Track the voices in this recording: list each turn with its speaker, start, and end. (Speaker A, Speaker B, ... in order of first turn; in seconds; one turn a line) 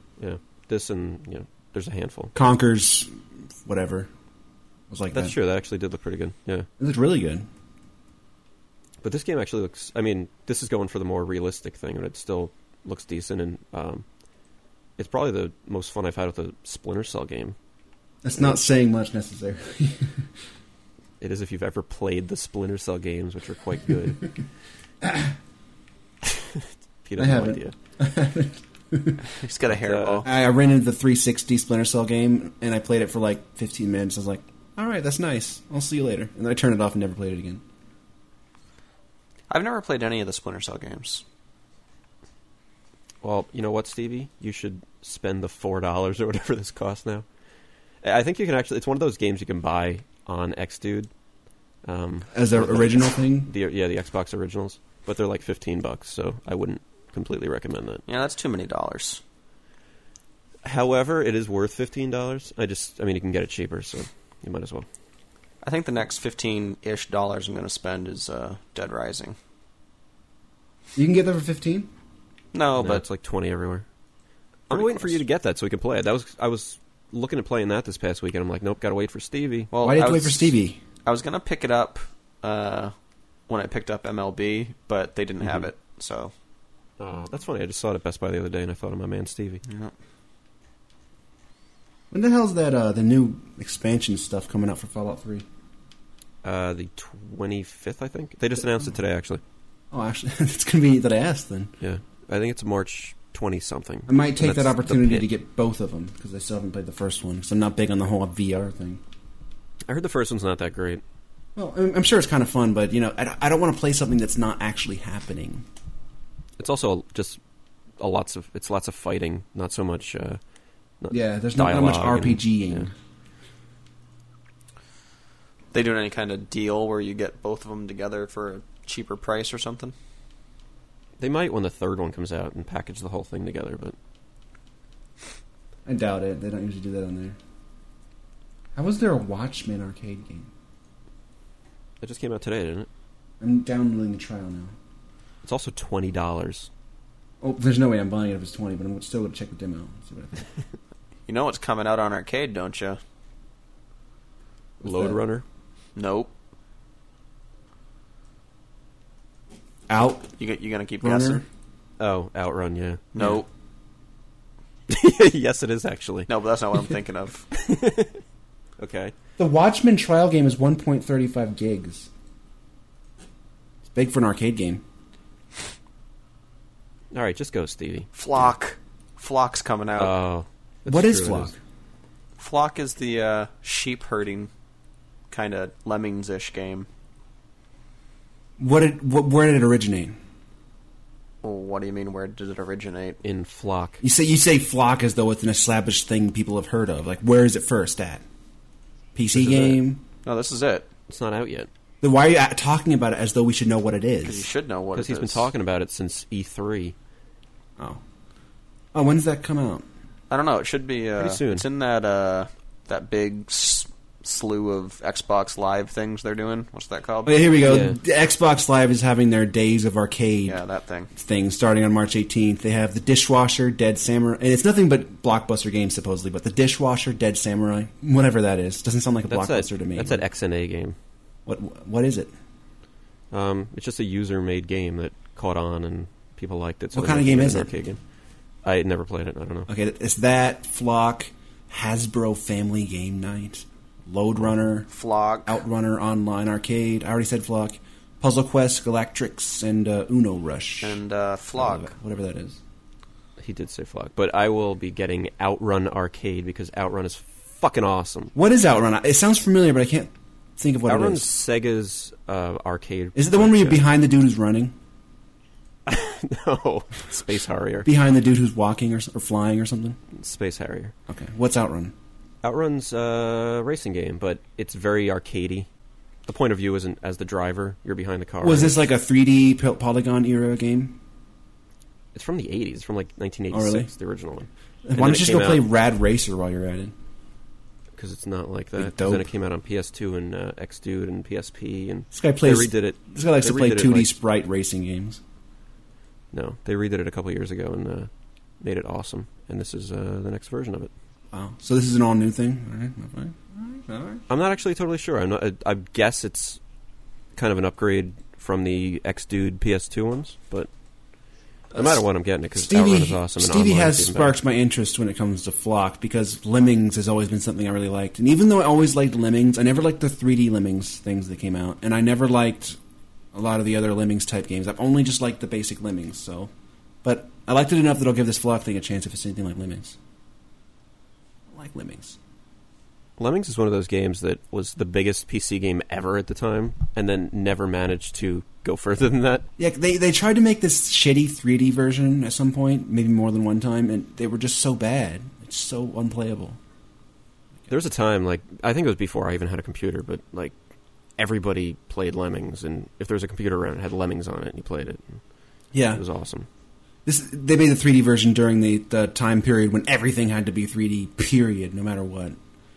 Speaker A: 0.2-2.3
Speaker B: 2.3-3.1
Speaker B: 3.6-4.1
Speaker B: 4.9-5.3
Speaker A: 5.1-6.7
Speaker B: 6.8-7.5
Speaker A: 9.0-14.0
Speaker A: 15.0-17.6
Speaker B: 18.2-20.3
Speaker A: 21.2-24.3
Speaker B: 25.0-25.3
Speaker A: 26.2-27.7
Speaker B: 27.2-29.2
Speaker C: 29.2-30.3
Speaker A: 29.7-30.2
Speaker B: 30.2-37.6
Speaker C: 39.5-41.2
Speaker A: 43.2-47.2
Speaker A: 48.0-51.1
Speaker A: 51.8-58.0
Speaker B: 52.3-53.5
Speaker C: 58.1-59.2
Speaker A: 60.6-64.9
Speaker C: 65.6-69.3
Speaker B: 70.9-71.9
Speaker C: 72.5-73.0
Speaker A: 72.8-73.8
Speaker A: 74.7-79.7
Speaker C: 74.7-75.2
Speaker C: 79.7-82.9
Speaker B: 79.8-80.8
Speaker C: 83.5-86.3
Speaker A: 87.0-89.6
Speaker C: 89.7-89.9
Speaker B: 92.1-95.4
Speaker A: 96.4-99.4
Speaker B: 99.9-101.7
Speaker A: 101.8-105.2
Speaker B: 104.1-109.0
Speaker A: 109.8-111.0
Speaker B: 111.5-115.6
Speaker A: 116.6-117.4
Speaker A: 118.0-120.4
Speaker A: 121.0-122.8
Speaker B: 121.1-122.9
Speaker C: 125.7-129.9
Speaker A: 131.2-134.0
Speaker B: 135.8-137.4
Speaker B: 138.8-140.5
Speaker A: 142.0-142.9
Speaker B: 143.4-144.7
Speaker A: 145.4-146.7
Speaker B: 147.4-150.4
Speaker C: 151.3-153.0
Speaker B: 154.8-155.2
Speaker A: 154.8-155.4
Speaker C: 155.9-156.3
Speaker B: 159.9-160.3
Speaker C: 160.4-161.4
Speaker B: 161.0-161.4
Speaker A: 162.0-163.2
Speaker C: 163.1-163.5
Speaker A: 164.9-166.3
Speaker C: 166.3-167.5
Speaker A: 167.5-168.2
Speaker A: 168.8-169.1
Speaker B: 169.4-172.1
Speaker B: 173.8-174.8
Speaker A: 177.1-178.1
Speaker C: 178.1-180.1
Speaker A: 180.0-181.5
Speaker B: 180.8-181.6
Speaker C: 182.4-184.5
Speaker C: 185.3-186.9
Speaker B: 188.6-190.2
Speaker C: 191.4-193.2
Speaker A: 193.2-194.0
Speaker B: 194.0-198.2
Speaker B: 199.1-200.0
Speaker A: 199.3-199.8
Speaker C: 200.2-200.9
Speaker A: 201.1-201.7
Speaker B: 202.0-204.4
Speaker C: 204.2-205.5
Speaker A: 204.9-206.9
Speaker B: 208.9-209.8
Speaker C: 210.3-217.5
Speaker A: 211.2-211.6
Speaker B: 217.2-220.6
Speaker A: 217.6-218.0
Speaker C: 220.5-221.1
Speaker B: 221.1-230.2
Speaker A: 229.3-231.0
Speaker B: 231.4-232.3
Speaker A: 233.3-238.0
Speaker B: 236.9-237.7
Speaker A: 238.6-239.7
Speaker B: 239.7-244.9
Speaker C: 244.9-245.6
Speaker B: 245.4-251.0
Speaker C: 250.8-251.9
Speaker B: 251.5-252.6
Speaker A: 253.4-258.3
Speaker B: 258.3-261.2
Speaker A: 260.9-263.8
Speaker B: 263.1-264.7
Speaker A: 265.9-267.9
Speaker B: 267.8-270.0
Speaker A: 270.1-270.9
Speaker B: 271.1-271.9
Speaker A: 272.4-275.7
Speaker A: 276.2-278.8
Speaker B: 278.4-281.0
Speaker A: 282.1-285.6
Speaker B: 283.5-283.9
Speaker B: 284.9-286.9
Speaker A: 287.9-294.1
Speaker B: 288.8-289.2
Speaker B: 292.1-295.2
Speaker A: 296.3-300.9
Speaker B: 301.3-304.2
Speaker A: 304.3-306.6
Speaker A: 307.3-310.7
Speaker A: 311.7-314.4
Speaker B: 312.5-322.8
Speaker B: 323.3-326.5
Speaker B: 327.0-330.0
Speaker B: 331.5-332.2
Speaker A: 333.2-339.5
Speaker B: 339.6-346.6
Speaker A: 347.7-350.6
Speaker A: 351.2-355.2
Speaker B: 355.7-356.0
Speaker A: 355.9-356.5
Speaker B: 357.0-362.4